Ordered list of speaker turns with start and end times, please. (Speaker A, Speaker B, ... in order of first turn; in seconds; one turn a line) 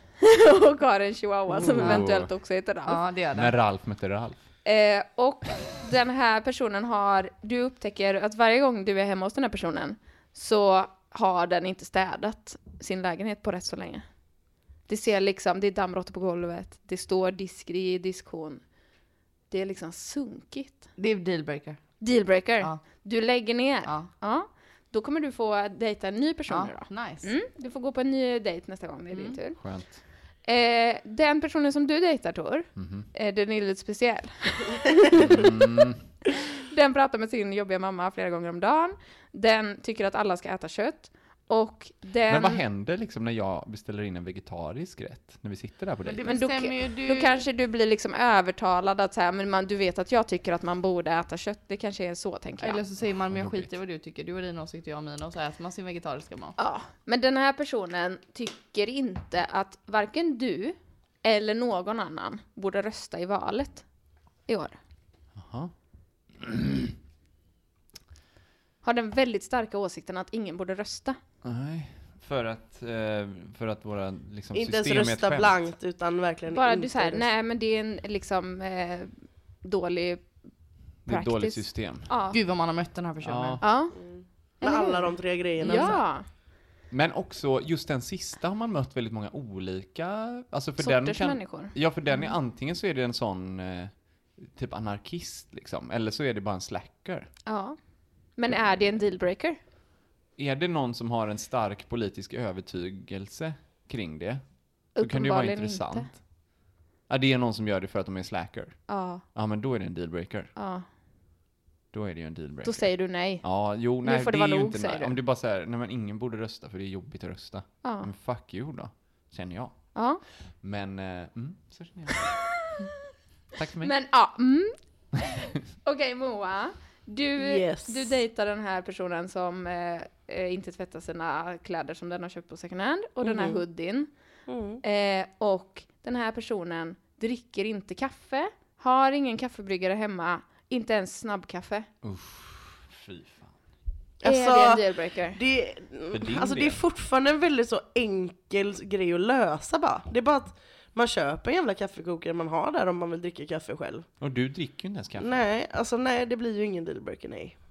Speaker A: 0.2-3.0
Speaker B: 1.5-2.3
Speaker C: 2.9-3.5
Speaker B: 3.3-4.4
Speaker A: 4.6-14.0
Speaker A: 14.9-18.6
Speaker A: 19.5-20.8
Speaker C: 21.0-21.8
Speaker A: 22.0-29.6
Speaker C: 23.8-24.1
Speaker C: 26.5-27.3
Speaker C: 29.1-29.4
Speaker B: 29.6-30.0
Speaker A: 30.4-35.6
Speaker B: 32.8-33.1
Speaker B: 35.1-36.0
Speaker A: 36.2-42.6
Speaker B: 42.3-46.3
Speaker C: 46.0-47.4
Speaker A: 46.2-52.8
Speaker C: 52.6-56.5
Speaker B: 53.3-53.7
Speaker A: 56.6-63.8
Speaker A: 64.5-64.8
Speaker B: 65.3-65.7
Speaker B: 66.4-66.9
Speaker A: 68.8-71.2
Speaker B: 71.4-75.6
Speaker D: 74.5-77.3
Speaker A: 76.5-80.2
Speaker B: 81.0-82.1
Speaker A: 81.1-82.4
Speaker C: 82.3-83.7
Speaker B: 83.2-83.6
Speaker A: 83.6-83.9
Speaker D: 83.9-86.0
Speaker A: 84.6-86.2
Speaker B: 86.9-97.3
Speaker A: 90.8-92.3
Speaker A: 97.5-97.8
Speaker A: 98.3-99.6
Speaker B: 100.4-104.4
Speaker A: 105.0-106.1
Speaker B: 105.0-106.2
Speaker B: 107.1-110.5
Speaker A: 108.9-109.2
Speaker A: 110.5-110.8
Speaker B: 111.9-112.9
Speaker A: 112.6-113.4
Speaker B: 113.4-119.9
Speaker A: 114.0-115.2
Speaker A: 117.8-118.1
Speaker A: 119.9-120.2
Speaker B: 120.6-122.8
Speaker B: 123.5-123.9
Speaker A: 123.8-134.1
Speaker D: 127.4-128.1
Speaker D: 133.2-133.6
Speaker D: 134.5-134.8
Speaker A: 134.8-141.9
Speaker B: 142.0-143.5
Speaker D: 144.2-154.1
Speaker A: 144.2-145.4
Speaker B: 146.1-146.8
Speaker B: 154.2-155.4
Speaker D: 155.2-157.5